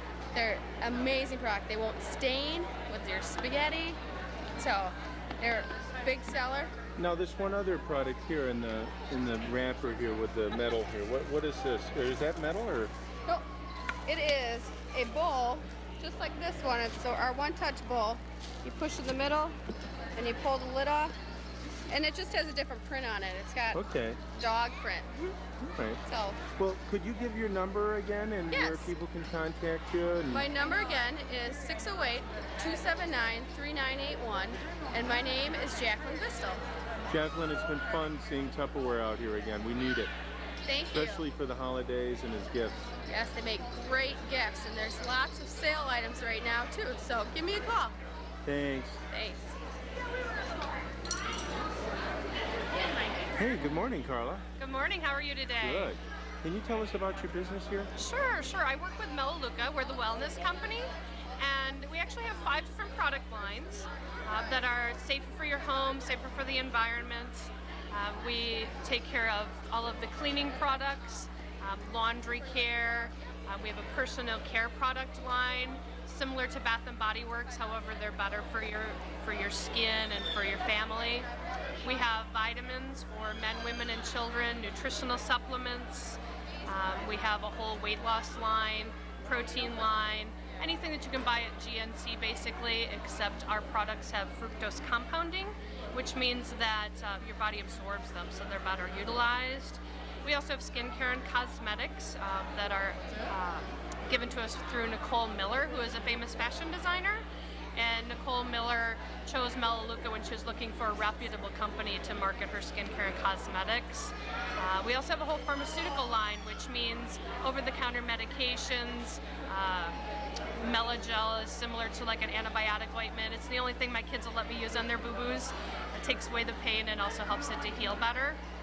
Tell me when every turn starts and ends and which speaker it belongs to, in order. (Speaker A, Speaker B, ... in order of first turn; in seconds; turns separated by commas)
Speaker A: 0.3-4.0, Speaker A: 4.6-6.7, Speaker B: 7.0-12.9, Speaker A: 14.1-19.6, Speaker A: 20.1-21.1, Speaker A: 21.9-25.4, Speaker B: 23.7-24.2, Speaker B: 25.6-26.0, Speaker A: 26.1-26.4, Speaker B: 26.6-30.5, Speaker A: 28.5-28.9, Speaker A: 30.3-36.6, Speaker B: 37.1-40.1, Speaker A: 40.6-41.3, Speaker B: 40.9-42.9, Speaker A: 43.1-48.0, Speaker B: 48.5-49.0, Speaker A: 49.1-49.6, Speaker B: 53.4-54.4, Speaker C: 54.6-55.9, Speaker B: 55.6-57.9, Speaker C: 58.0-81.3, Speaker C: 81.8-120.0, Speaker C: 120.6-128.4